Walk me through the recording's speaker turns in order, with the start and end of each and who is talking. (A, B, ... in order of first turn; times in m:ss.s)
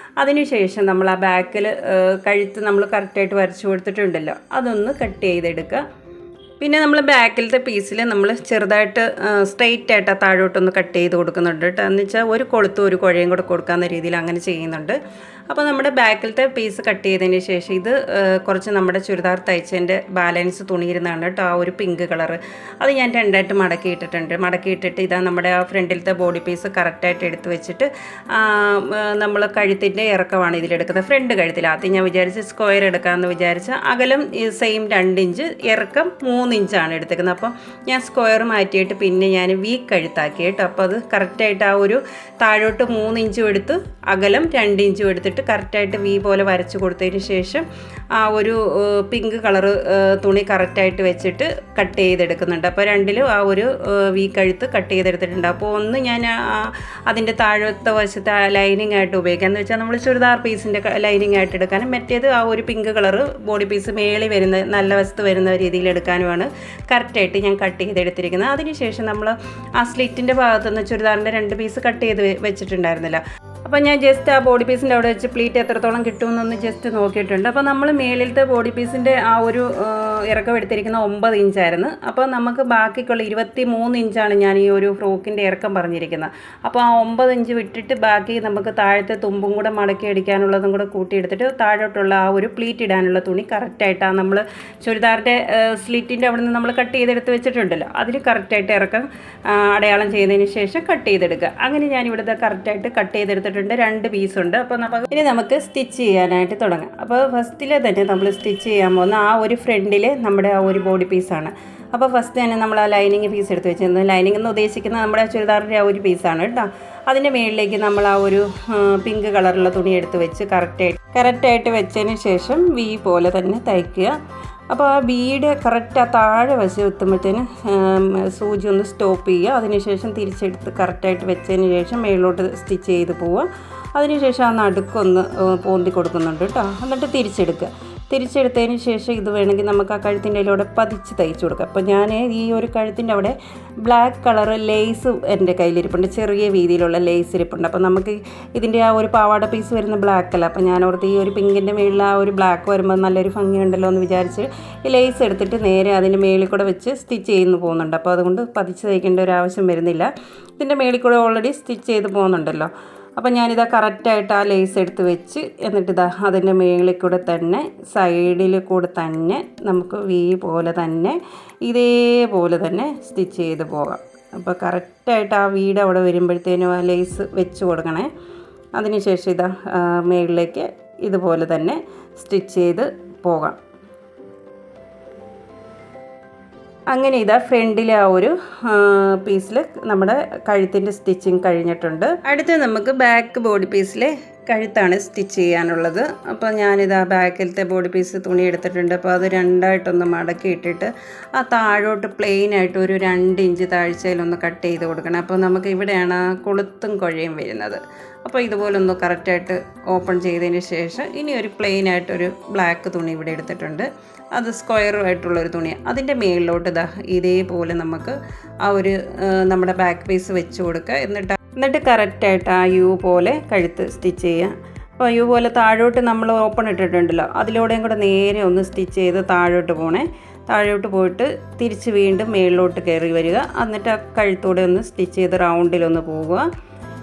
0:00.2-0:05.8 A
0:06.6-2:04.2 A
2:04.7-2:58.1 A
2:58.8-3:03.6 A
3:06.9-3:56.5 A